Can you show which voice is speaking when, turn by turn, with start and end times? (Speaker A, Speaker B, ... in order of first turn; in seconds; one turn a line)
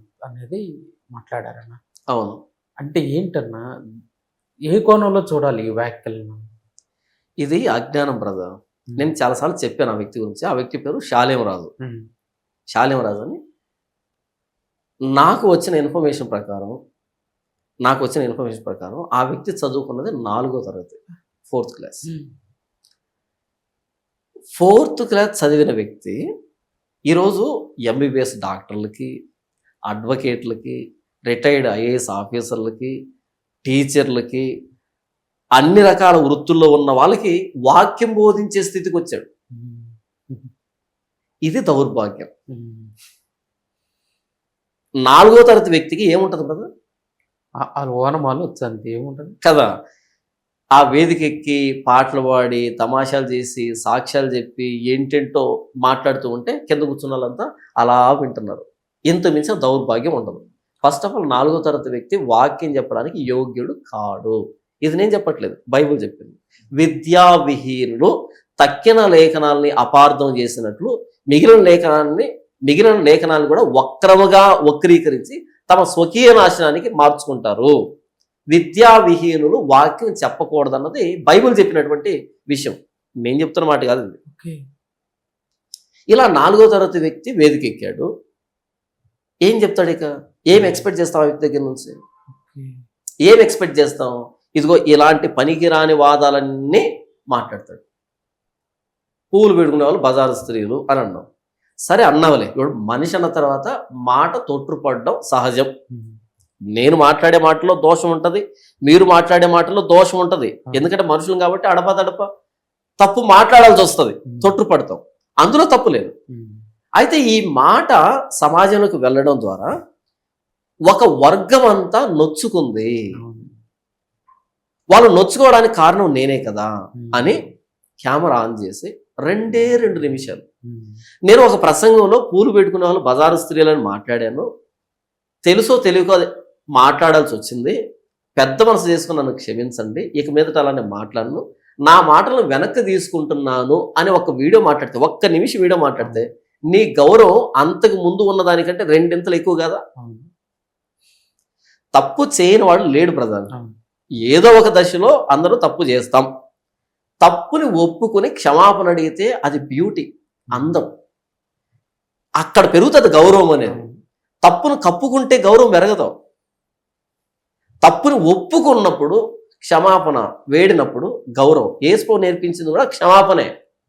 Speaker A: 0.3-0.6
Speaker A: 1.1-1.8
Speaker B: 2.1-2.4
Speaker A: 2.8-3.6
Speaker A: 4.7-6.4
Speaker B: 7.4-11.7
Speaker B: 12.7-13.4
Speaker B: 15.2-16.7
Speaker B: 17.9-22.1
Speaker B: 24.6-26.1
Speaker B: 27.1-29.1
Speaker B: 29.9-32.9
Speaker B: 33.6-34.5
Speaker B: 35.6-39.2
Speaker A: 39.6-40.5
Speaker B: 41.5-42.3
Speaker A: 42.5-42.9
Speaker B: 45.0-46.6
Speaker A: 47.7-49.3
Speaker B: 49.4-49.7
Speaker B: 50.8-77.7
Speaker B: 78.5-84.2
Speaker A: 84.3-84.6
Speaker B: 86.1-88.1
Speaker B: 89.4-92.0
Speaker A: 90.5-90.9
Speaker A: 92.3-92.7
Speaker B: 93.2-97.8
Speaker B: 99.3-101.2
Speaker B: 101.9-105.7
Speaker A: 105.9-106.2
Speaker B: 106.7-112.2
Speaker B: 113.0-116.1
Speaker A: 114.3-114.5
Speaker A: 116.3-116.6
Speaker B: 117.0-119.7
Speaker B: 120.9-122.9
Speaker A: 123.2-123.5
Speaker B: 124.9-127.4
Speaker A: 127.0-127.3
Speaker B: 128.0-130.4
Speaker A: 130.7-131.0
Speaker B: 131.3-134.4
Speaker B: 135.4-136.2
Speaker B: 136.8-137.8
Speaker B: 138.4-149.8
Speaker A: 150.0-150.3
Speaker B: 151.9-153.5
Speaker B: 154.2-156.3
Speaker B: 157.2-160.9
Speaker A: 160.5-160.8
Speaker B: 162.4-163.8
Speaker A: 163.7-163.9
Speaker B: 164.4-166.1
Speaker B: 167.8-173.5